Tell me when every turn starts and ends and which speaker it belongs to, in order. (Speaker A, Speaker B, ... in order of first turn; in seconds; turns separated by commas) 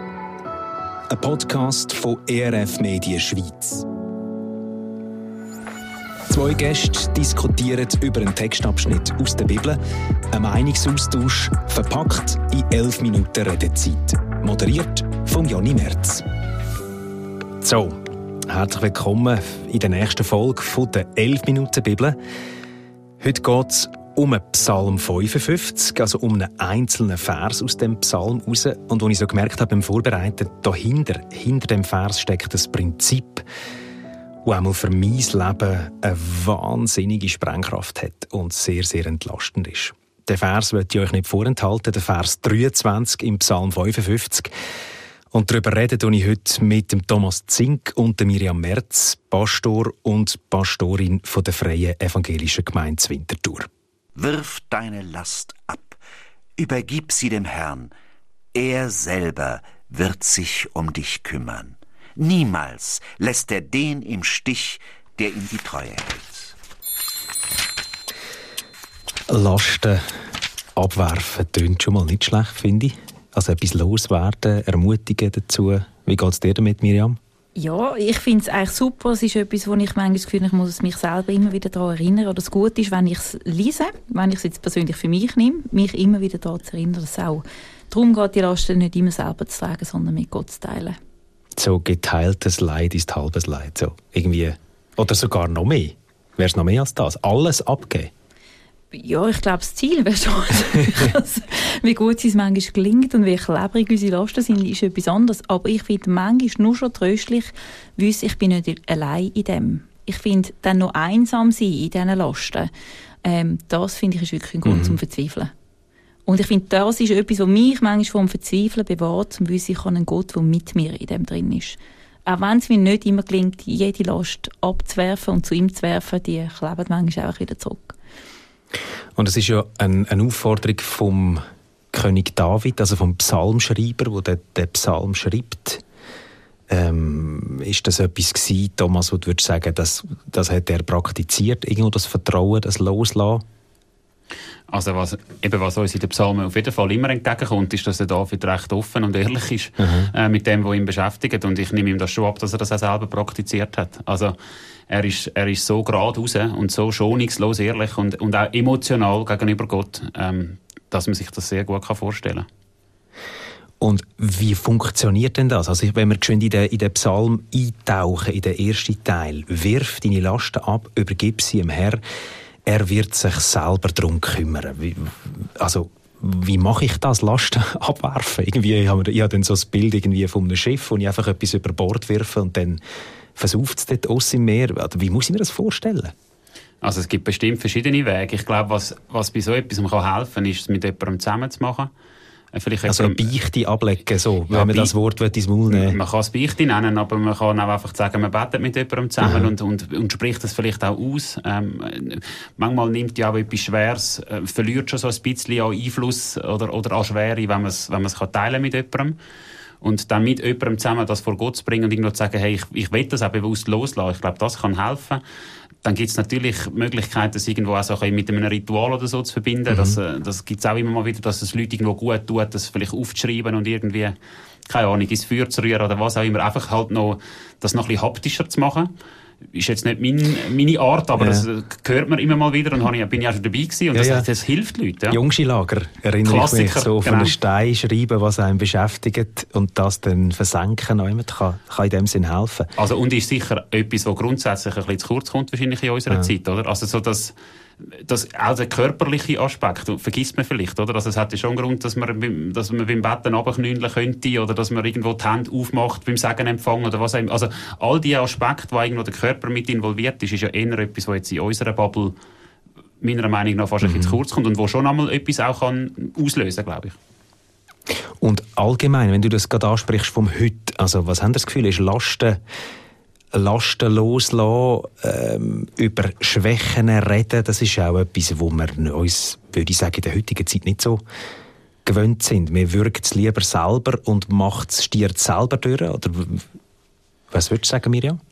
Speaker A: 1.1-3.9, Speaker A: 6.3-9.8, Speaker A: 10.3-16.2, Speaker A: 17.6-22.2, Speaker A: 23.2-33.4, Speaker A: 34.5-44.5, Speaker A: 45.3-53.7, Speaker B: 54.2-56.0, Speaker B: 56.6-57.9, Speaker B: 58.5-66.5, Speaker A: 69.3-70.0, Speaker A: 70.8-77.2, Speaker C: 77.6-91.0, Speaker A: 91.6-98.1, Speaker C: 98.9-112.7, Speaker C: 113.2-115.5, Speaker A: 114.7-115.0, Speaker C: 116.3-128.0, Speaker A: 129.2-131.4, Speaker A: 131.9-135.8, Speaker A: 136.7-143.4, Speaker D: 144.7-154.3, Speaker A: 149.8-150.1, Speaker D: 154.9-162.5, Speaker A: 163.8-172.0, Speaker A: 172.7-182.8, Speaker A: 183.4-186.1, Speaker D: 186.8-191.9, Speaker D: 192.5-193.2, Speaker A: 192.8-196.0, Speaker D: 194.5-194.9, Speaker D: 195.7-209.2, Speaker A: 199.2-199.5, Speaker D: 209.8-215.2, Speaker D: 215.8-224.2, Speaker A: 219.7-220.0, Speaker D: 224.7-228.9, Speaker D: 229.5-235.2, Speaker A: 231.2-231.5, Speaker A: 233.9-234.3, Speaker A: 235.1-242.7, Speaker D: 236.2-237.4, Speaker D: 242.8-262.2, Speaker D: 263.0-267.0, Speaker A: 263.8-264.2, Speaker A: 268.2-272.4, Speaker A: 273.3-281.0, Speaker A: 281.9-286.4, Speaker A: 287.3-288.2